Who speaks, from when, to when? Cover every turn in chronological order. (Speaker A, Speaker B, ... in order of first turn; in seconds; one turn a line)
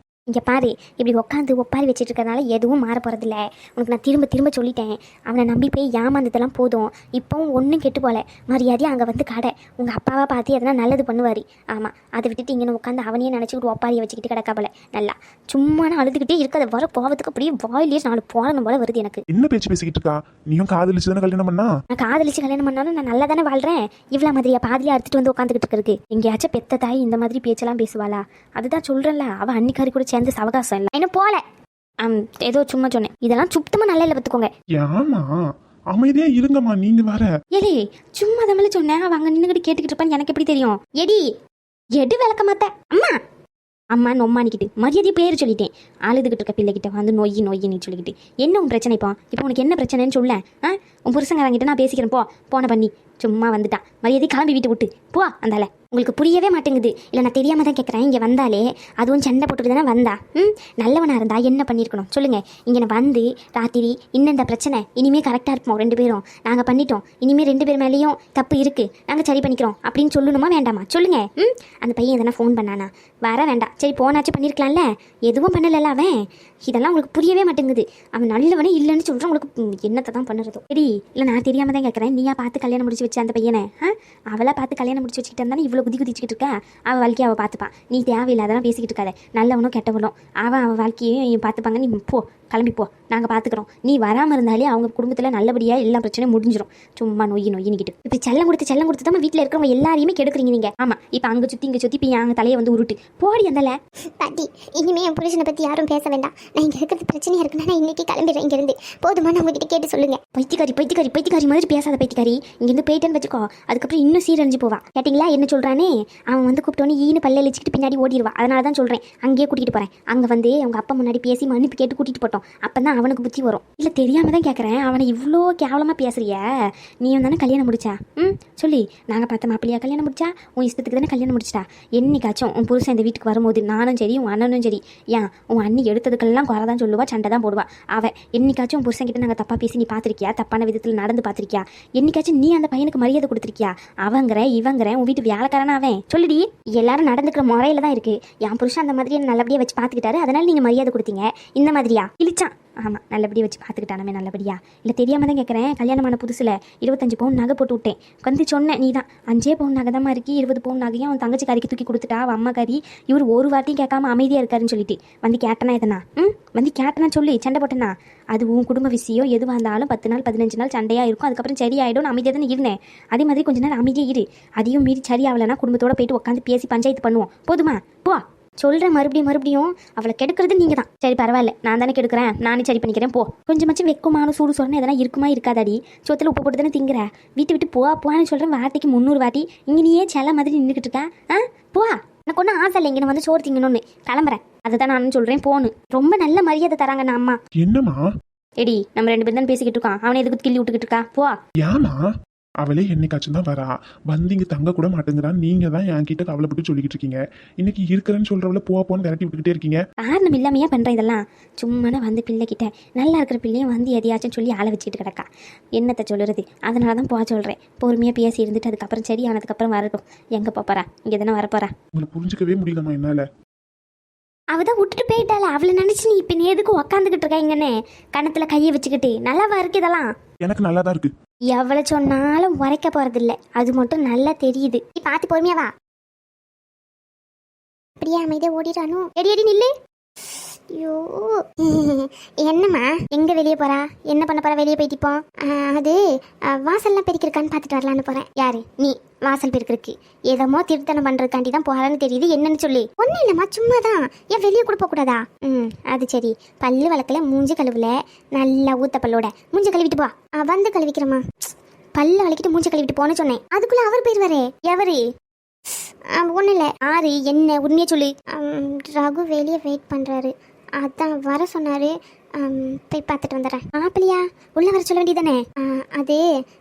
Speaker A: 0.3-19.2
Speaker B: 19.3-21.7
Speaker A: 21.9-31.4
Speaker A: 32.0-34.5
Speaker B: 34.8-35.3
Speaker B: 35.9-37.3
Speaker A: 37.5-41.3
Speaker A: 42.0-43.2
Speaker A: 43.9-76.1
Speaker A: 76.7-103.7
Speaker C: 104.2-110.2
Speaker A: 110.2-126.4
Speaker A: 127.0-197.4
Speaker B: 197.6-198.0
Speaker A: 198.6-201.4
Speaker B: 201.6-202.0
Speaker B: 202.6-209.8
Speaker A: 210.0-221.7
Speaker B: 222.0-223.2
Speaker A: 224.5-230.1
Speaker B: 230.4-231.1
Speaker A: 231.5-234.9
Speaker C: 235.0-235.7
Speaker C: 238.0-239.2
Speaker A: 239.1-239.7
Speaker C: 240.7-246.0
Speaker A: 243.1-244.9
Speaker C: 246.5-248.4
Speaker A: 248.3-249.9
Speaker C: 250.3-251.8
Speaker A: 251.6-253.0
Speaker C: 253.0-255.4
Speaker A: 255.4-256.2
Speaker C: 256.2-261.3
Speaker A: 259.7-260.1
Speaker A: 262.0-263.4
Speaker C: 262.8-265.0
Speaker C: 266.2-266.8
Speaker A: 266.8-268.1
Speaker C: 268.3-273.7
Speaker A: 273.7-275.4
Speaker C: 275.6-276.2